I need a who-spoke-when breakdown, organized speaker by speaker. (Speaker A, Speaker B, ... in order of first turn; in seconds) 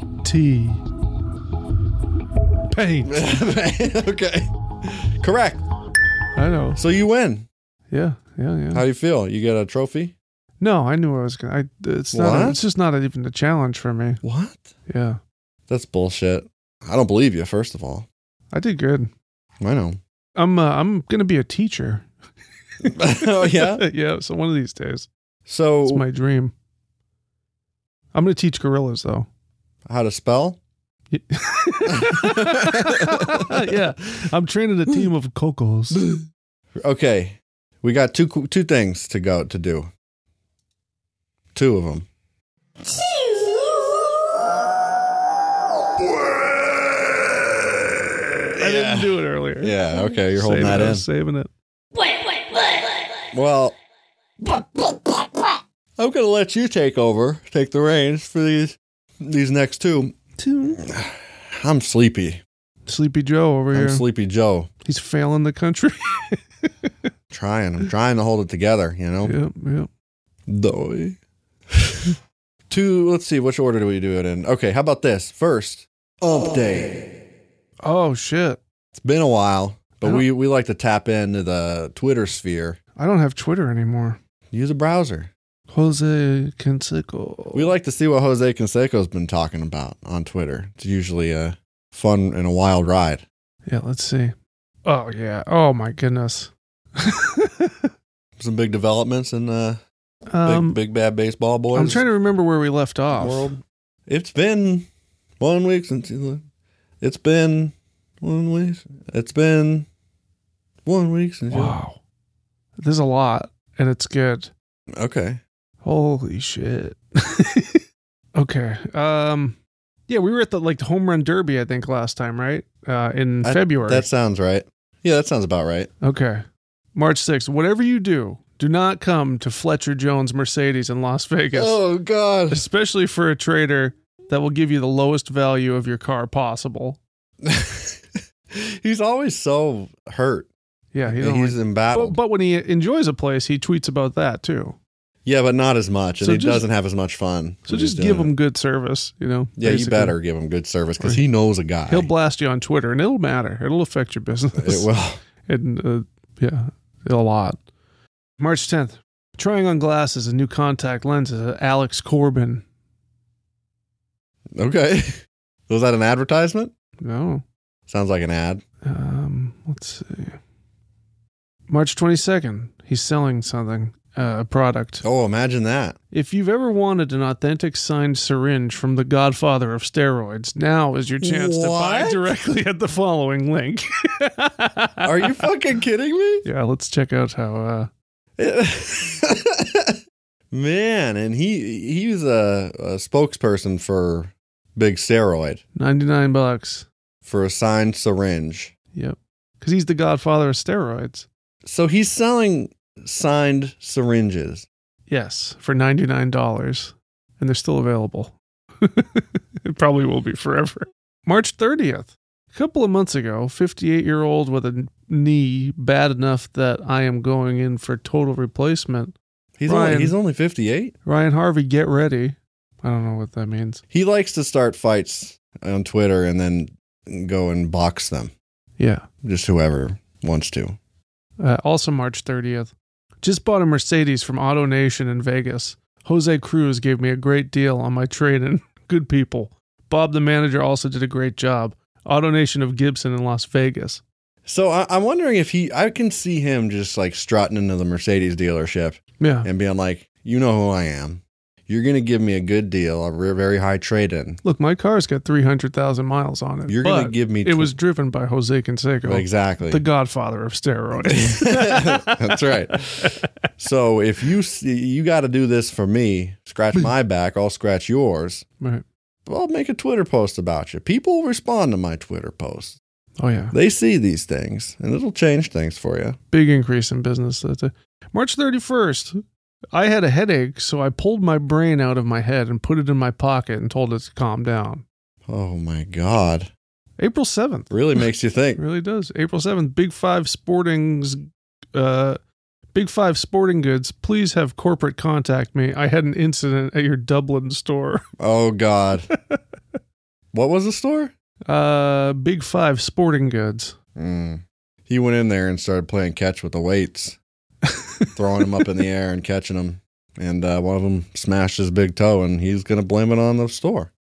Speaker A: 0.2-0.8, 2.7-3.1, 6.4-6.8, 7.9-8.8, 10.6-14.2, 14.9-15.2, 18.5-19.1, 20.4-22.1, 22.9-25.1, 25.9-26.5, 28.1-29.3, 31.1-36.1, 48.6-51.5, 60.4-60.8, 62.9-64.0, 64.8-66.9, 69.2-69.9, 77.8-78.6, 83.0-84.2, 85.7-87.7, 93.7-97.9, 100.3-100.8, 101.7-103.5, 111.5-112.0, 112.8-114.5, 115.8-117.8, 118.3-119.6, 120.1-124.1, 126.0-131.8, 132.5-137.0, 140.9-144.8, 146.2-146.7, 147.7-150.2, 151.9-154.9, 155.5-157.6, 158.4-162.6, 167.0-167.4, 168.8-170.4, 171.7-175.1, 176.1-185.4, 186.4-187.9, 195.8-196.9, 198.9-201.3, 205.1-219.2, 219.7-220.2, 221.1-223.8, 228.8-229.1, 231.4-244.0, 249.2-249.5, 254.4-263.2, 273.2-273.5, 276.3-279.2, 279.7-284.8, 287.0-287.8, 288.6-292.2, 292.7-298.1, 301.5-303.8, 307.7-308.1
Speaker B: 3.0-5.7, 6.8-7.5, 8.7-10.1, 12.1-12.6, 14.2-14.7, 15.7-18.1, 19.6-20.0, 22.9-23.9, 25.5-26.1, 29.9-30.6, 31.9-33.7, 35.9-36.2, 36.8-39.9, 41.5-42.1, 48.5-51.1, 53.3-53.8, 56.0-60.2, 60.8-62.4, 63.7-64.7, 67.3-69.3, 70.5-71.2, 71.7-72.2, 72.7-77.1, 78.9-82.8, 84.5-85.3, 87.5-93.2, 98.4-99.8, 100.4-102.0, 103.1-104.9, 105.4-106.4, 107.0-109.9, 110.8-111.8, 114.9-115.4, 123.4-125.9, 131.5-132.7, 137.4-140.5, 141.1-142.2, 145.2-148.3, 149.6-152.1, 154.6-155.2, 164.5-166.7, 167.9-168.6, 175.0-176.0, 181.2-182.3, 185.0-186.5, 188.4-190.0, 190.5-195.6, 197.2-198.7, 201.6-204.7, 219.6-220.9, 223.9-228.3, 229.2-230.8, 244.4-254.4, 256.7-257.8, 259.0-259.8, 261.0-268.5, 269.3-272.8, 273.5-276.2, 285.3-286.5, 287.7-288.6, 298.2-299.1, 300.3-301.1, 304.0-307.2, 308.1-313.9